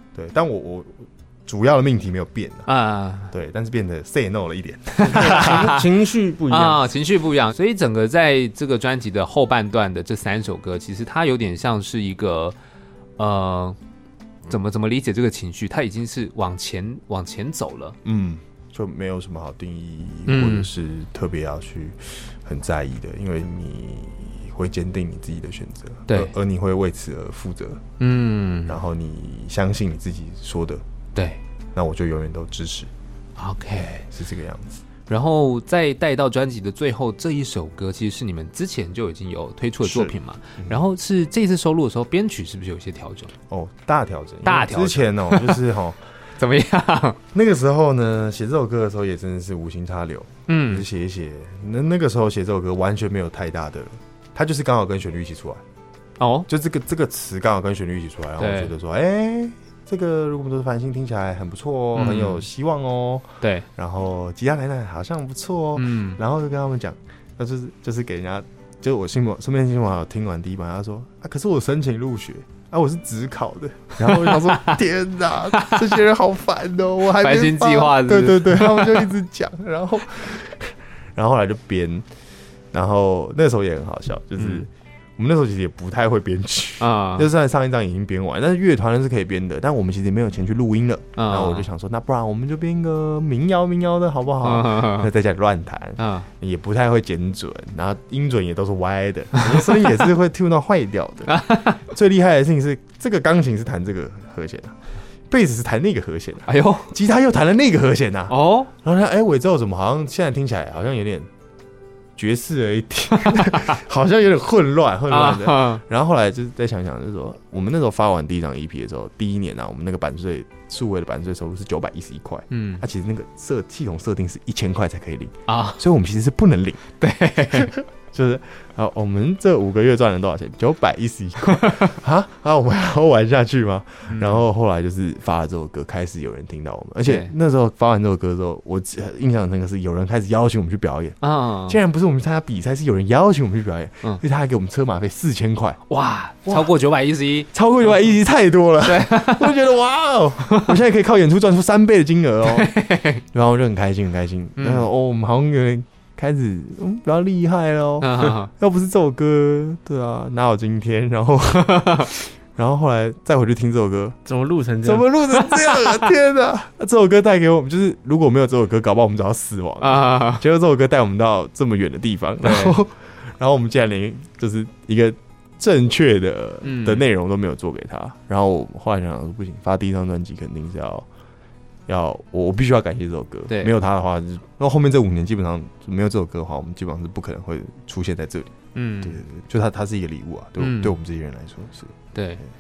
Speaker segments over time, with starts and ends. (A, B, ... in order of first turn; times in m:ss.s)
0:00.1-0:02.7 A
0:02.6-0:03.3 B
0:03.3-0:05.7 A
0:05.0-0:05.8 B
0:05.0-0:06.9 C
0:06.5-0:12.6 B
0:13.2-0:13.8 B
0:14.4-0:18.0 B
0:18.0-0:27.8 A
0:20.3-0:20.7 B
0:26.1-0:26.3 B
0:28.0-0:28.8 B
0:28.7-0:30.8 A
0:31.1-0:31.4 B
0:31.7-0:32.9 A
0:33.4-0:34.0 B
0:33.8-0:34.8 A
0:35.1-0:43.3 B
0:39.8-0:40.8 A
0:43.5-0:46.0 A
0:44.4-0:45.6 B
0:46.4-0:47.2 B
0:47.3-0:55.6 A
0:50.5-0:50.8 B
0:56.2-0:56.5 B
0:56.5-1:22.1 A
0:58.4-0:58.8 B
1:01.9-1:02.4 B
1:05.8-1:06.2 B
1:14.0-1:14.8 B
1:15.5-1:15.8 B
1:17.2-1:19.1 B
1:22.7-1:44.8 A
1:24.4-1:24.6 B
1:26.8-1:27.3 B
1:31.2-1:31.7 B
1:34.4-1:35.1 B
1:36.0-1:36.3 B
1:41.3-1:41.8 B
1:45.3-1:51.3 A
1:46.5-1:46.9 B
1:48.3-1:48.7 B
1:52.2-2:06.8 A
1:53.3-1:53.7 B
1:55.1-1:55.8 B
2:02.5-2:02.8 B
2:05.5-2:05.8 B
2:07.0-2:07.7 B
2:07.4-2:25.8 A
2:11.4-2:11.9 B
2:14.1-2:14.4 B
2:17.0-2:17.3 B
2:21.2-2:21.8 B
2:25.9-2:27.5 B
2:27.5-2:32.7 A
2:28.8-2:29.6 B
2:30.5-2:30.7 B
2:32.4-2:33.2 B
2:33.3-2:44.2 A
2:34.6-2:34.9 B
2:38.0-2:38.5 B
2:41.7-2:42.1 B
2:44.2-2:45.1 C
2:44.8-3:01.0 A
2:45.4-2:46.1 B
2:49.8-2:50.4 B
2:52.4-2:52.8 B
2:56.6-2:57.0 B
3:01.9-3:12.0 A
3:08.7-3:09.2 B
3:10.6-3:11.0 B
3:12.1-3:12.4 B